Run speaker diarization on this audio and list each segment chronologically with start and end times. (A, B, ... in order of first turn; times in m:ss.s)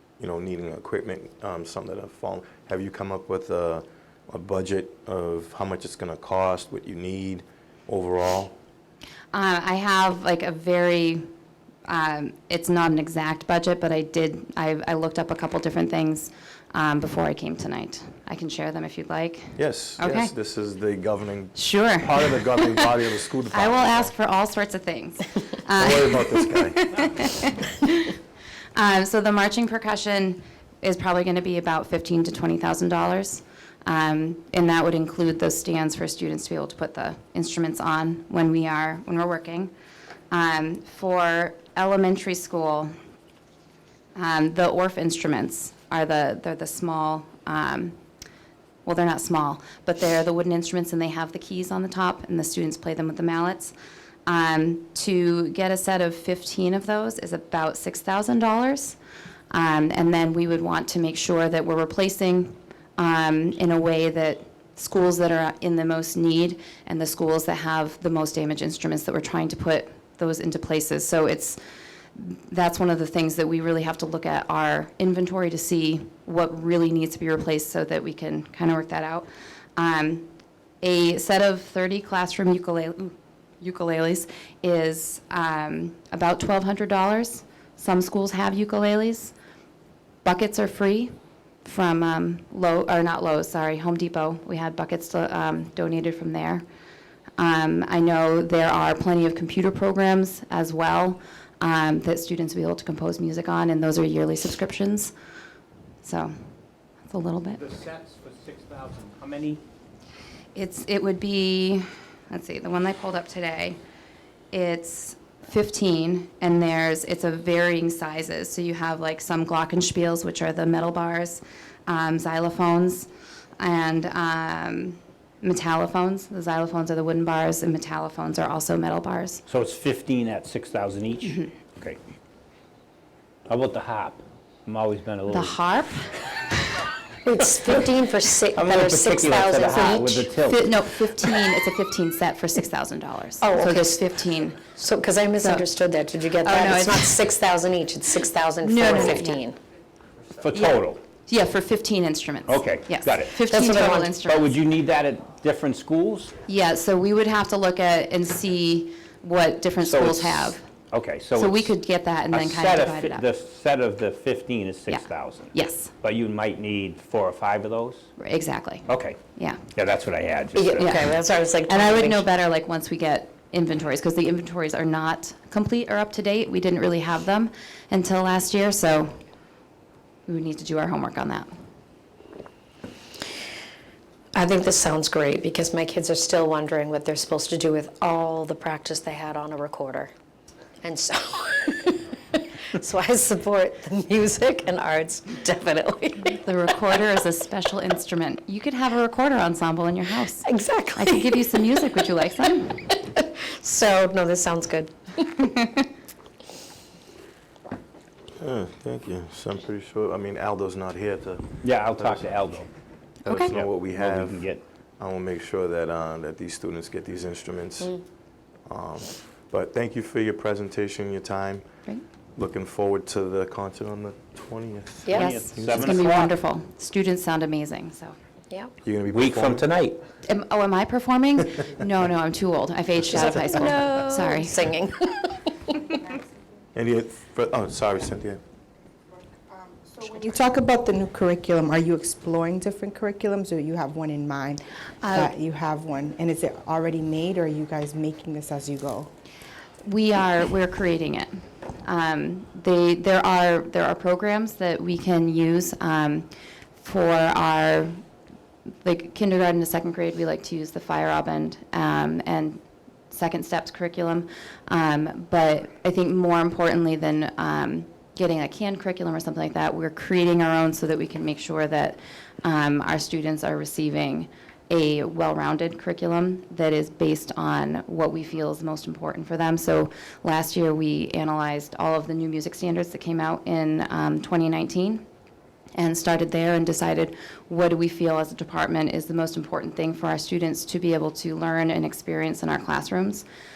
0:00.2-0:08.5 A
0:09.3-0:11.3 B
0:11.9-0:20.3 B
0:19.6-0:24.1 A
0:21.5-0:22.9 B
0:23.5-0:28.2 B
0:25.8-0:27.1 A
0:28.7-0:39.7 B
0:40.3-0:42.9 B
0:44.1-0:48.0 B
0:48.8-0:53.7 B
0:54.2-0:59.0 B
0:59.5-1:11.6 B
1:12.2-1:20.3 B
1:20.8-1:29.3 B
1:30.2-1:31.1 B
1:31.6-1:36.6 B
1:37.4-1:45.1 B
1:46.0-1:46.3 B
1:47.1-1:47.6 B
1:47.6-1:49.6 C
1:50.5-1:53.8 B
1:54.5-2:03.1 B
2:03.6-2:09.4 B
2:09.5-2:12.0 C
2:11.2-2:11.5 B
2:13.5-2:15.5 C
2:15.3-2:16.2 B
2:17.2-2:20.3 D
2:18.5-2:20.8 C
2:19.7-2:24.6 B
2:23.4-2:24.0 D
2:24.6-2:29.6 D
2:25.4-2:25.7 B
2:26.4-2:27.2 B
2:28.6-2:29.4 B
2:30.4-2:31.1 C
2:30.5-2:34.5 B
2:32.5-2:33.4 C
2:33.4-2:34.1 D
2:34.1-2:36.4 C
2:36.4-2:40.7 B
2:39.8-2:41.8 C
2:41.3-2:43.3 B
2:42.3-2:48.0 C
2:44.9-2:45.9 B
2:48.2-2:49.6 B
2:48.9-2:50.9 C
2:50.5-2:52.2 D
2:50.8-2:59.1 B
3:00.3-3:01.5 B
3:04.3-3:10.1 D
3:10.8-3:16.4 D
3:16.3-3:22.9 B
3:20.4-3:21.6 D
3:22.9-3:25.3 D
3:25.4-3:25.8 B
3:28.4-3:32.5 A
3:31.6-3:32.7 C
3:33.3-3:33.5 B
3:33.3-3:34.5 A
3:33.3-3:34.6 C
3:35.0-3:38.0 A
3:38.7-3:41.6 A
3:42.4-3:46.0 A
3:45.0-3:45.3 D
3:45.1-3:48.1 B
3:45.2-3:46.3 C
3:48.8-3:49.6 A
3:49.1-3:50.0 C
3:50.2-3:54.8 B
3:53.0-3:55.5 D
3:56.7-3:58.4 A
3:59.8-4:09.1 E
4:05.0-4:05.3 B
4:09.8-4:11.3 B
4:11.8-4:18.0 B
4:18.8-4:45.0 B
4:45.8-4:53.2 B